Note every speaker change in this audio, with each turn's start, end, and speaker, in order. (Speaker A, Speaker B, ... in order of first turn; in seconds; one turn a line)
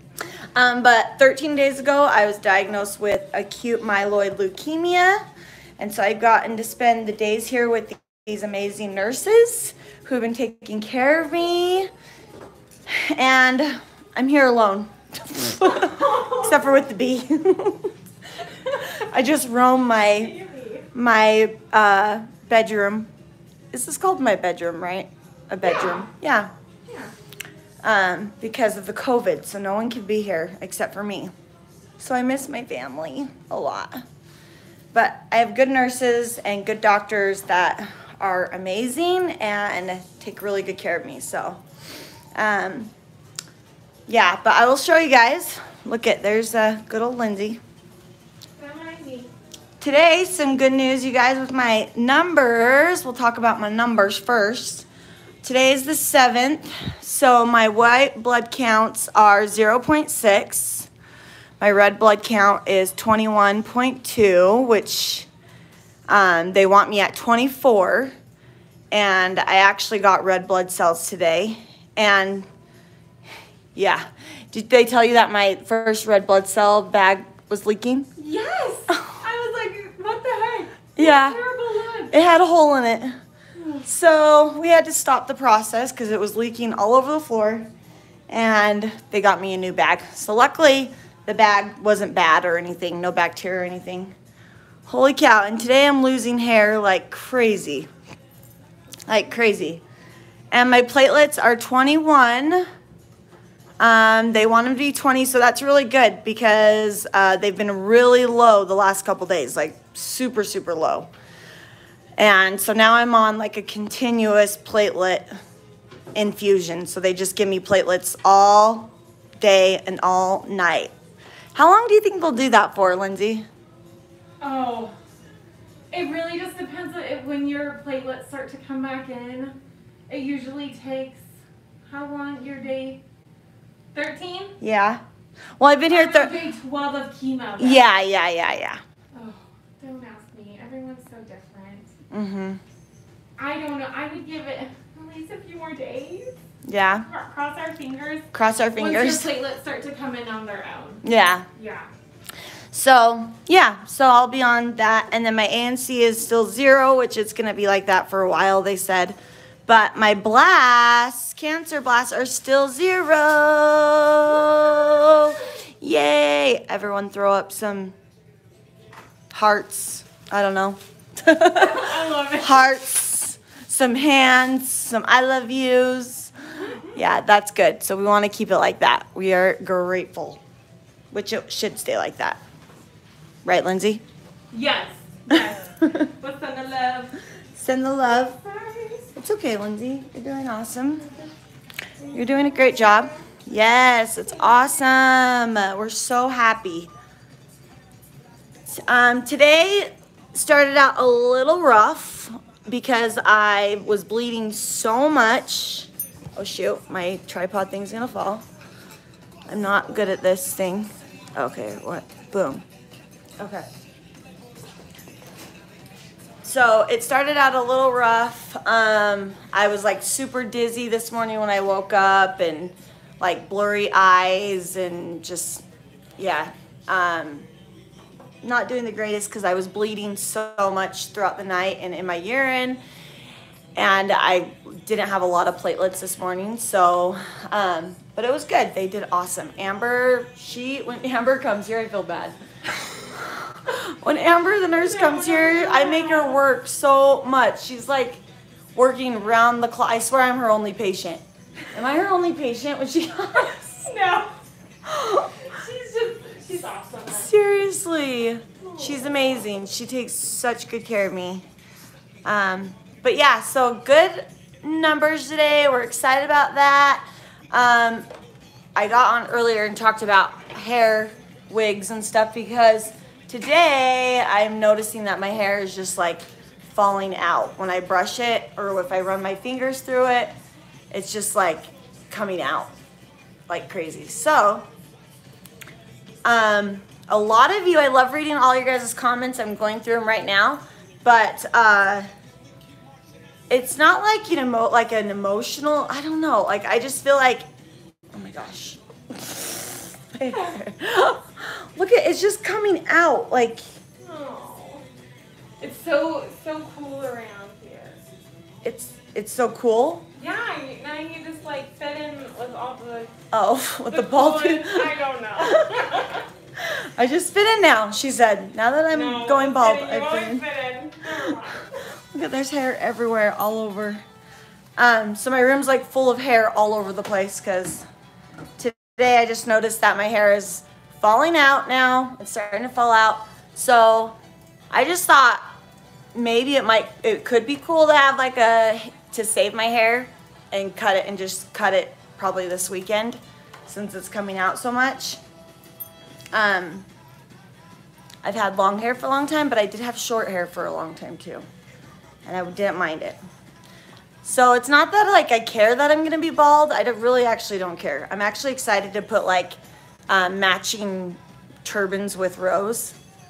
Speaker A: 0.5-5.2
Speaker A: 5.8-11.9
Speaker A: 12.9-17.9
Speaker B: 15.8-16.5
Speaker A: 18.7-20.3
Speaker B: 20.0-20.9
Speaker A: 20.9-23.1
Speaker A: 23.7-26.5
Speaker B: 25.6-26.1
Speaker B: 26.9-27.1
Speaker A: 27.8-31.3
Speaker A: 32.0-34.0
Speaker A: 34.9-41.6
Speaker A: 42.3-42.9
Speaker A: 44.1-47.6
Speaker B: 48.6-49.3
Speaker A: 49.8-54.9
Speaker A: 55.4-60.9
Speaker A: 61.6-65.3
Speaker A: 66.1-68.1
Speaker A: 68.9-72.5
Speaker A: 73.7-78.1
Speaker B: 78.2-82.1
Speaker A: 78.9-79.2
Speaker A: 81.0-81.4
Speaker A: 82.1-83.2
Speaker B: 83.6-83.8
Speaker A: 83.8-87.7
Speaker A: 88.3-94.1
Speaker A: 94.9-97.9
Speaker A: 99.1-99.8
Speaker A: 100.5-102.7
Speaker A: 103.8-111.1
Speaker A: 112.2-115.3
Speaker A: 116.1-120.9
Speaker A: 121.5-123.5
Speaker B: 124.4-124.9
Speaker B: 125.9-129.6
Speaker B: 130.1-131.2
Speaker B: 131.8-133.0
Speaker B: 133.9-134.5
Speaker A: 134.6-135.0
Speaker A: 135.6-136.4
Speaker B: 135.9-137.8
Speaker A: 137.6-138.8
Speaker B: 139.1-141.9
Speaker A: 142.1-142.6
Speaker B: 143.4-146.3
Speaker A: 146.7-147.1
Speaker B: 147.0-151.9
Speaker A: 148.3-149.3
Speaker A: 151.0-151.5
Speaker A: 152.7-167.9
Speaker A: 169.3-176.3
Speaker B: 171.5-172.7
Speaker B: 176.6-176.9
Speaker A: 176.9-180.4
Speaker A: 181.1-182.4
Speaker A: 183.4-184.0
Speaker B: 184.5-187.2
Speaker A: 185.3-186.1
Speaker A: 187.5-188.4
Speaker B: 188.2-189.1
Speaker A: 189.2-191.1
Speaker B: 192.0-192.9
Speaker A: 192.1-196.9
Speaker A: 198.7-208.4
Speaker A: 209.4-212.6
Speaker A: 213.4-213.7
Speaker A: 216.4-225.6
Speaker A: 226.2-227.5
Speaker A: 228.4-232.8
Speaker A: 233.8-248.2
Speaker B: 244.8-246.4
Speaker A: 248.7-253.9
Speaker B: 253.8-254.4
Speaker A: 254.8-255.3
Speaker B: 255.5-257.3
Speaker A: 257.1-261.4
Speaker A: 262.2-268.1
Speaker A: 268.7-280.4
Speaker A: 280.9-282.7
Speaker A: 283.5-284.7
Speaker A: 286.2-292.1
Speaker A: 293.5-297.5
Speaker A: 298.1-303.7
Speaker B: 304.0-304.8
Speaker B: 305.6-308.0
Speaker A: 308.6-310.1
Speaker B: 310.2-313.1
Speaker A: 313.3-316.0
Speaker B: 313.9-316.2
Speaker A: 316.6-320.5
Speaker B: 318.9-321.8
Speaker A: 322.1-324.0
Speaker A: 324.8-327.9
Speaker A: 328.6-334.2
Speaker A: 334.7-335.4
Speaker A: 336.1-345.2
Speaker A: 346.3-346.9
Speaker A: 348.2-351.4
Speaker A: 352.2-353.2
Speaker A: 354.2-359.6
Speaker A: 360.1-362.9